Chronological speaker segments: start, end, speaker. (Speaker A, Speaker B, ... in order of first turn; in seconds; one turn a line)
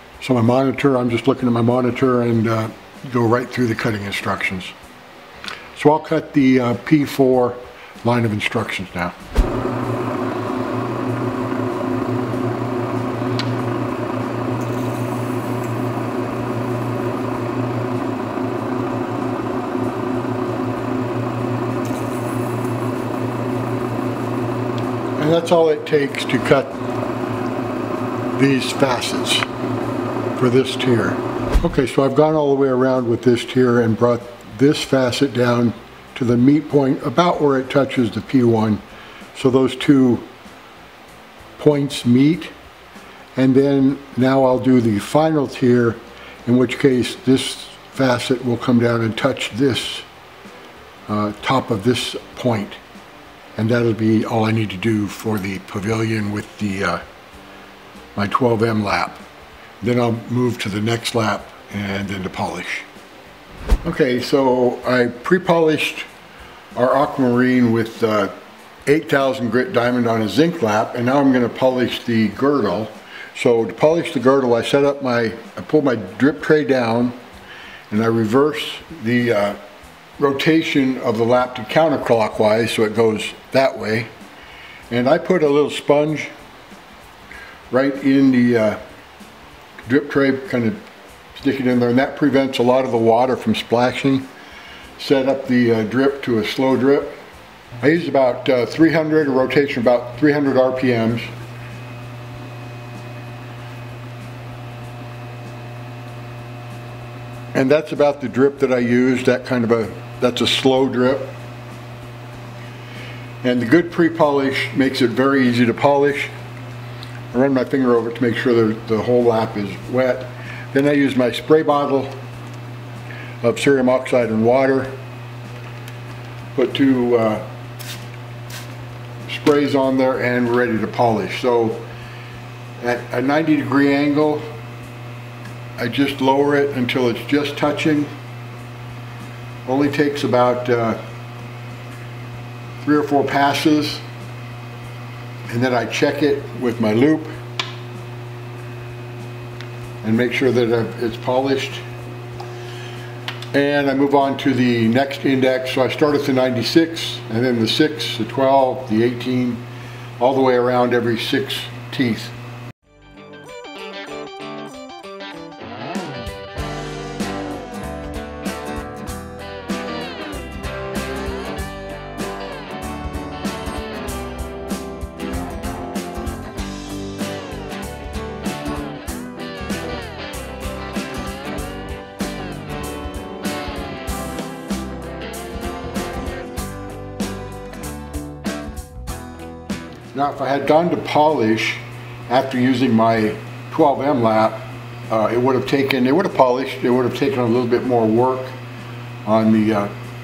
Speaker A: 0.2-4.7
Speaker A: 5.7-9.1
Speaker A: 25.2-26.8
Speaker A: 28.3-29.5
Speaker A: 30.4-38.8
Speaker A: 39.3-40.3
Speaker A: 41.6-42.5
Speaker A: 43.4-50.0
Speaker A: 51.1-52.8
Speaker A: 53.5-57.0
Speaker A: 58.1-59.2
Speaker A: 59.8-62.9
Speaker A: 63.8-66.1
Speaker A: 66.7-68.3
Speaker A: 68.8-77.1
Speaker A: 77.9-79.6
Speaker A: 80.2-84.1
Speaker A: 84.9-86.3
Speaker A: 87.7-88.8
Speaker A: 89.8-90.8
Speaker A: 91.3-94.3
Speaker A: 95.0-97.2
Speaker A: 97.8-101.3
Speaker A: 107.5-111.3
Speaker A: 113.4-116.3
Speaker A: 117.3-122.1
Speaker A: 123.4-124.9
Speaker A: 126.5-127.4
Speaker A: 129.2-131.8
Speaker A: 132.8-134.4
Speaker A: 135.8-138.1
Speaker A: 139.6-141.0
Speaker A: 142.8-144.0
Speaker A: 145.5-147.3
Speaker A: 150.0-151.8
Speaker A: 153.5-159.6
Speaker A: 160.2-162.3
Speaker A: 190.1-198.6
Speaker A: 199.2-199.9